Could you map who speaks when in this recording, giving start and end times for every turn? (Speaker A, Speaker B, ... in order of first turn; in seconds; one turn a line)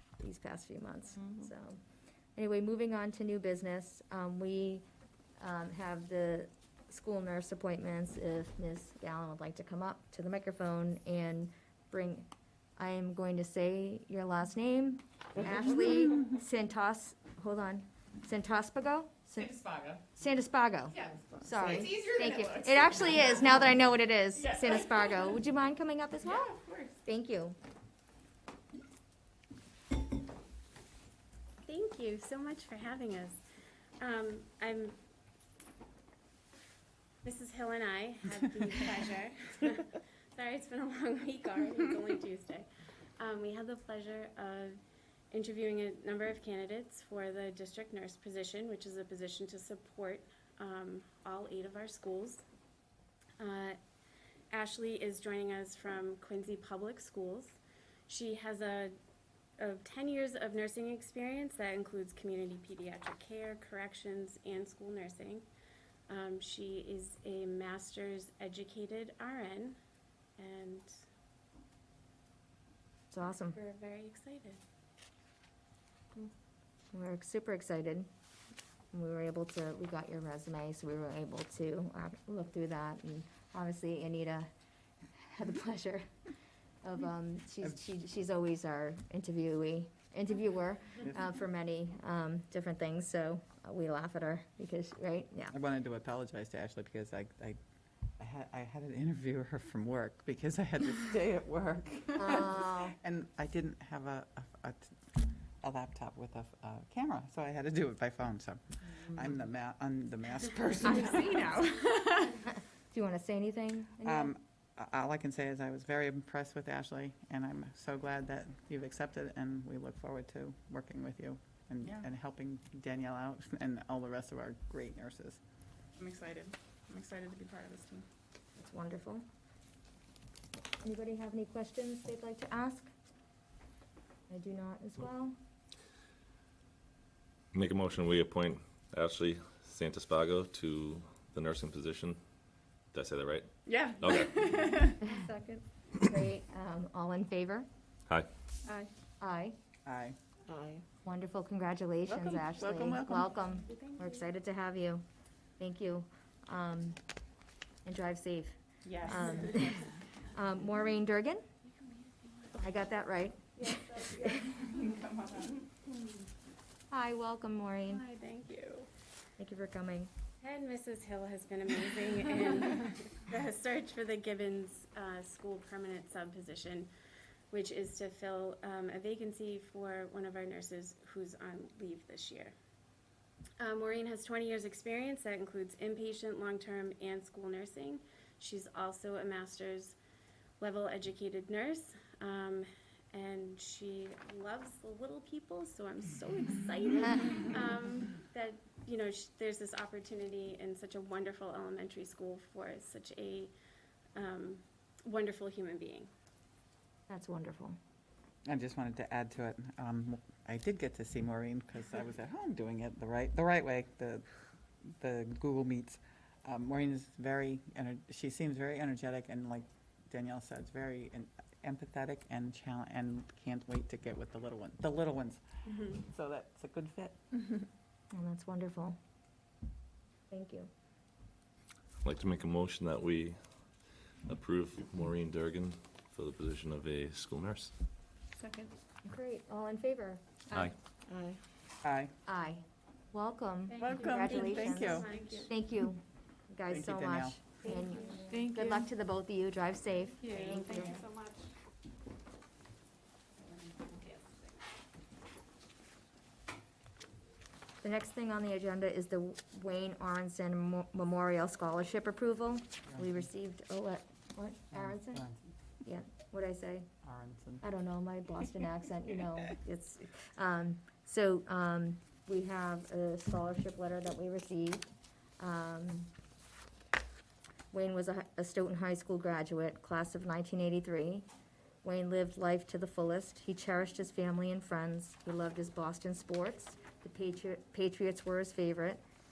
Speaker A: 0.2-1.8
Speaker A: 2.4-4.8
Speaker A: 5.4-19.6
Speaker B: 19.4-20.0
Speaker A: 20.1-26.5
Speaker B: 21.1-22.0
Speaker C: 21.6-23.0
Speaker C: 26.4-26.9
Speaker A: 27.1-27.6
Speaker D: 31.6-33.4
Speaker D: 34.0-35.0
Speaker D: 37.2-42.7
Speaker D: 43.2-44.8
Speaker D: 45.3-52.4
Speaker D: 53.4-53.8
Speaker D: 54.5-59.0
Speaker D: 59.6-65.5
Speaker D: 66.1-69.8
Speaker D: 70.4-70.9
Speaker A: 73.1-73.6
Speaker D: 73.5-74.6
Speaker A: 76.9-78.1
Speaker A: 78.9-84.5
Speaker A: 85.1-86.1
Speaker A: 86.8-95.5
Speaker B: 95.5-97.6
Speaker B: 98.2-105.0
Speaker A: 102.2-103.0
Speaker B: 105.6-111.6
Speaker A: 110.8-114.3
Speaker C: 111.7-112.2
Speaker B: 114.0-125.4
Speaker C: 126.0-128.1
Speaker A: 128.6-129.2
Speaker A: 130.8-132.9
Speaker A: 134.3-135.4
Speaker E: 137.5-142.2
Speaker E: 142.9-143.5
Speaker C: 143.7-145.6
Speaker E: 144.0-144.4
Speaker A: 146.0-147.7
Speaker A: 149.2-149.6
Speaker B: 149.8-150.2
Speaker A: 151.0-155.0
Speaker B: 152.1-153.3
Speaker A: 155.6-157.0
Speaker A: 157.8-161.4
Speaker C: 159.0-159.7
Speaker D: 161.7-162.8
Speaker A: 162.6-164.6
Speaker D: 163.7-164.2
Speaker A: 166.9-168.0
Speaker D: 167.9-168.9
Speaker A: 169.4-170.1
Speaker D: 170.4-176.9
Speaker D: 177.5-182.5
Speaker D: 183.6-190.0
Speaker D: 190.6-203.5
Speaker D: 204.2-206.1
Speaker A: 207.1-207.8
Speaker B: 208.5-214.2
Speaker B: 215.0-227.2
Speaker D: 225.7-226.0
Speaker A: 228.1-229.0
Speaker A: 230.3-230.7
Speaker E: 232.0-233.4
Speaker E: 234.3-237.7
Speaker C: 238.4-238.7
Speaker A: 239.1-240.2
Speaker B: 241.8-242.1
Speaker A: 242.3-251.0
Speaker D: 243.7-245.5
Speaker B: 243.8-245.1
Speaker B: 246.7-247.4
Speaker D: 247.8-248.3
Speaker C: 248.3-248.8
Speaker D: 250.2-251.5
Speaker C: 250.7-251.0
Speaker D: 253.4-254.6
Speaker A: 257.8-265.2
Speaker B: 264.7-265.5
Speaker A: 265.8-266.9
Speaker B: 267.0-267.6
Speaker A: 267.6-276.1
Speaker A: 277.7-281.3
Speaker A: 281.8-289.0